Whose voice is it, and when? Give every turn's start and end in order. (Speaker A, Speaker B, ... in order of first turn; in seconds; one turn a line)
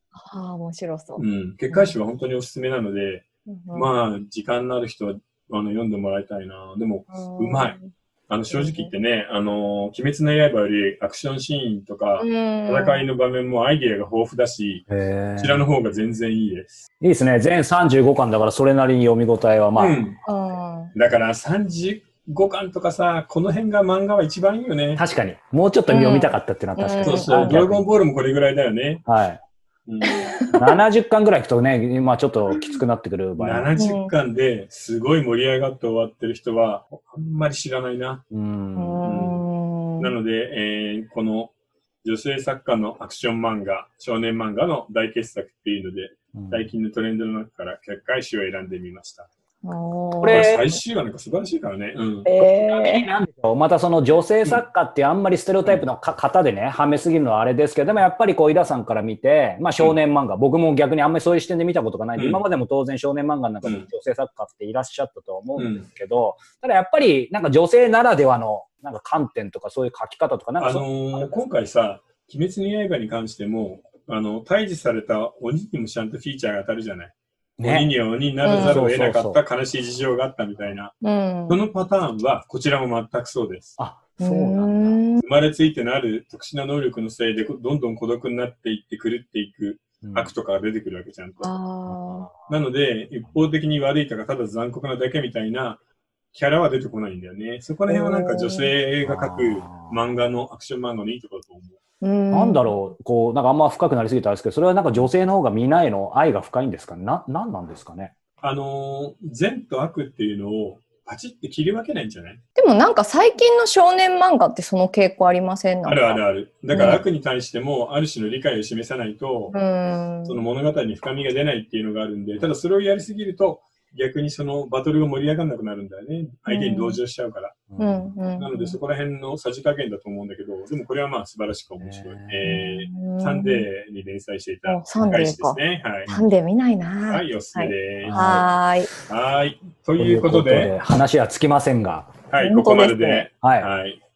Speaker A: 0.1-1.9
Speaker B: 1.2-7.8
Speaker A: 3.5-3.9
Speaker A: 7.1-7.9
Speaker B: 8.3-14.8
Speaker A: 8.5-8.9
Speaker A: 12.2-13.1
Speaker C: 14.9-15.7
Speaker B: 15.4-16.8
Speaker C: 17.0-20.0
Speaker B: 19.8-20.2
Speaker A: 20.2-20.9
Speaker B: 20.9-25.0
Speaker C: 25.0-27.8
Speaker A: 25.9-27.6
Speaker B: 27.0-29.0
Speaker C: 29.1-29.4
Speaker B: 29.9-30.3
Speaker A: 30.1-30.6
Speaker C: 30.5-33.7
Speaker B: 33.4-38.2
Speaker A: 33.8-34.1
Speaker C: 38.3-39.0
Speaker A: 38.8-40.1
Speaker B: 39.0-39.4
Speaker B: 40.0-41.5
Speaker B: 42.0-49.3
Speaker C: 46.3-46.7
Speaker A: 49.6-50.6
Speaker C: 50.2-50.6
Speaker B: 50.2-52.3
Speaker A: 52.2-53.1
Speaker C: 52.6-71.3
Speaker B: 62.1-62.4
Speaker B: 63.6-63.9
Speaker B: 65.5-65.8
Speaker B: 70.6-80.9
Speaker C: 77.6-77.9
Speaker A: 78.4-78.8
Speaker C: 78.5-79.4
Speaker A: 81.0-81.6
Speaker B: 81.5-83.8
Speaker C: 83.8-85.0
Speaker A: 84.2-85.2
Speaker B: 85.2-91.5
Speaker C: 90.0-90.3
Speaker A: 91.4-92.3
Speaker C: 91.9-92.6
Speaker B: 92.5-95.8
Speaker B: 96.3-101.8
Speaker A: 97.9-98.7
Speaker C: 99.0-100.0
Speaker A: 102.0-102.7
Speaker C: 102.3-108.1
Speaker B: 108.4-112.4
Speaker A: 112.6-117.0
Speaker B: 115.8-119.5
Speaker A: 119.5-120.4
Speaker B: 120.2-127.6
Speaker A: 126.5-127.0
Speaker C: 127.7-128.2
Speaker A: 127.8-128.8
Speaker B: 128.4-136.1
Speaker C: 131.8-132.6
Speaker A: 132.4-133.7
Speaker A: 134.7-138.9
Speaker B: 137.1-138.5
Speaker C: 138.0-138.5
Speaker B: 139.1-140.7
Speaker C: 140.0-142.1
Speaker B: 142.3-144.0
Speaker A: 142.4-143.3
Speaker C: 143.4-143.7